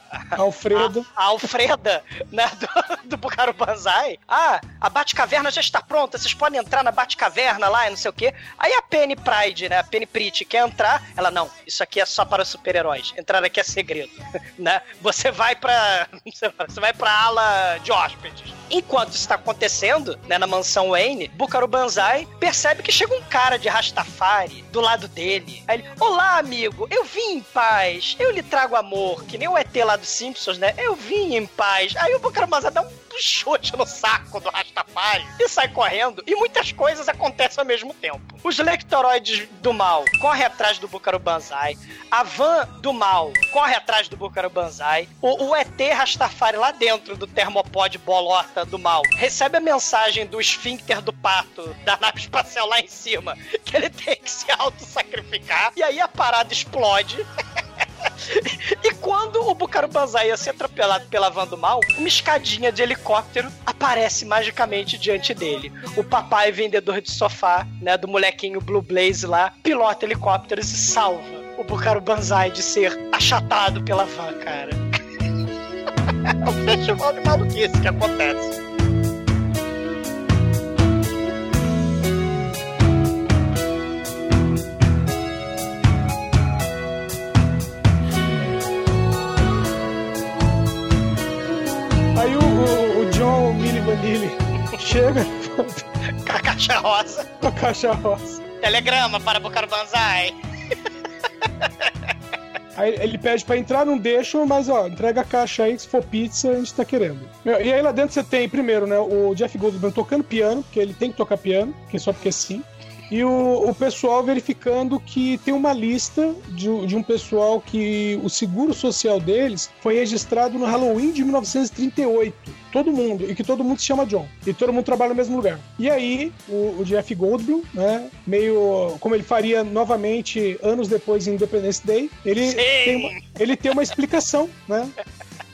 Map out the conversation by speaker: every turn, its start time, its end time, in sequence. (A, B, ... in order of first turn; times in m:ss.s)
0:00.4-0:01.1 A
0:00.7-0:57.2 B
0:58.3-1:14.8 B
1:16.4-1:18.6 B
1:32.2-1:35.8 A
1:36.2-1:37.3 B
1:37.4-1:38.4 A
1:38.6-1:40.3 B
1:42.8-2:14.9 A
2:12.4-2:13.2 B